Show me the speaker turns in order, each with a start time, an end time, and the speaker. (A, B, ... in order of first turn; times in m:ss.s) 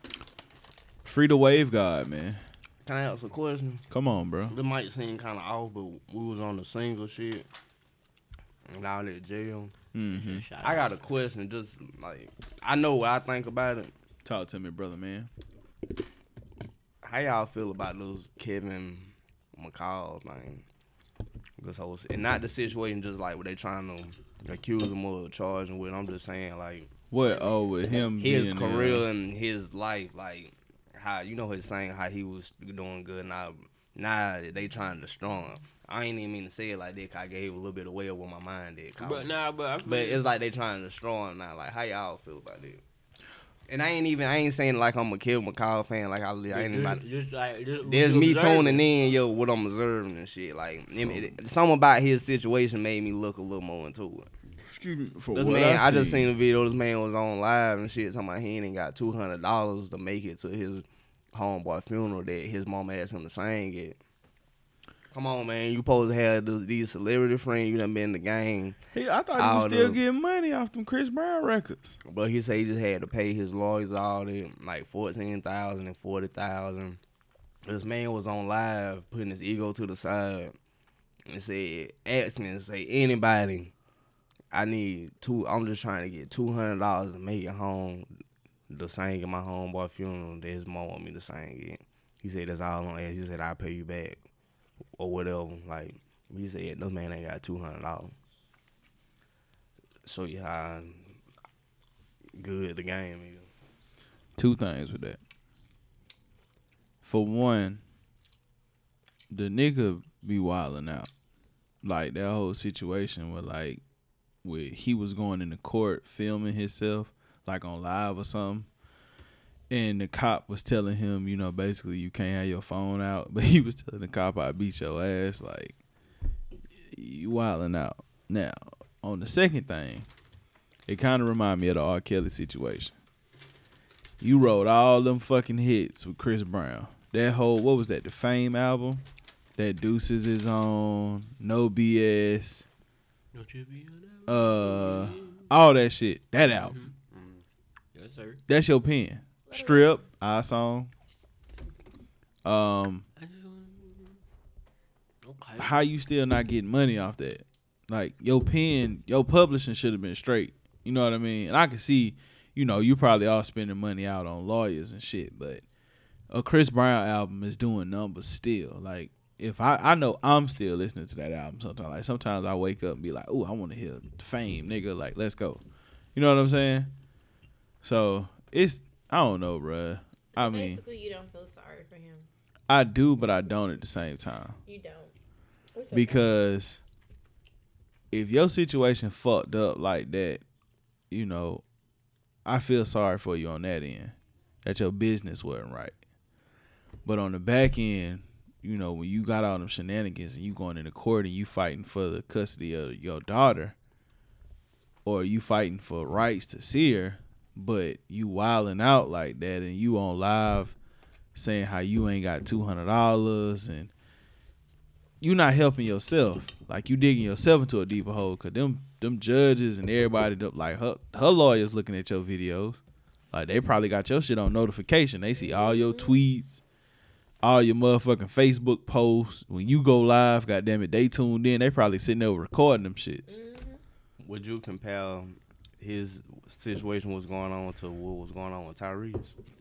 0:01.0-0:02.4 A
0:02.9-0:03.9 B
0:03.9-0:04.6 A
0:04.5-0:07.5 B
0:08.7-0:09.7 B
0:09.9-0:10.5 A
0:10.1-0:11.0 C
0:10.6-0:13.9 B
0:14.2-0:15.3 A
0:17.0-0:20.6 B
0:21.6-0:26.9 B
0:27.1-0:29.1 A
0:28.2-0:39.3 B
0:39.0-0:40.2 C
0:39.8-0:42.8 B
0:43.7-0:47.0 B
0:46.5-0:49.1 C
0:47.8-0:54.3 B
0:51.0-0:51.4 A
0:54.7-0:56.3 A
0:55.3-1:04.0 B
1:05.1-1:08.8 B
1:08.9-1:12.0 A
1:09.4-1:10.0 B
1:12.0-1:17.0 B
1:17.6-1:20.6 B
1:21.3-1:23.7 B
1:24.5-1:28.1 B
1:28.7-1:34.2 B
1:35.0-1:38.1 B
1:40.0-1:41.2 B
1:42.4-1:43.5 B
1:44.4-1:45.2 A
1:47.0-1:47.8 A
1:49.3-1:51.1 A
1:51.8-1:53.8 A
1:54.4-1:58.7 A
1:59.7-2:05.8 A
2:06.8-2:10.1 A
2:10.9-2:13.0 A
2:14.2-2:19.0 A
2:19.6-2:22.7 A
2:23.3-2:25.5 C
2:24.3-2:26.8 A
2:26.6-2:28.4 C
2:28.5-2:30.9 A
2:29.5-2:30.0 D
2:32.4-2:33.0 A
2:33.2-2:34.2 C
2:35.2-2:35.8 C
2:35.6-2:45.6 A
2:46.3-2:55.6 A
2:56.2-2:56.9 A
2:57.8-3:00.8 A
3:00.4-3:02.3 D
3:02.7-3:04.6 A
3:04.7-3:05.1 D
3:05.7-3:06.3 D
3:05.9-3:06.8 A
3:08.1-3:10.4 A
3:11.1-3:11.6 A
3:12.5-3:16.0 A
3:17.0-3:23.8 A
3:25.0-3:30.8 A
3:31.4-3:33.9 A
3:35.2-3:42.8 A
3:43.3-3:46.6 A
3:45.4-3:46.2 D
3:47.4-3:53.4 A
3:53.3-3:53.8 D
3:54.2-3:59.3 B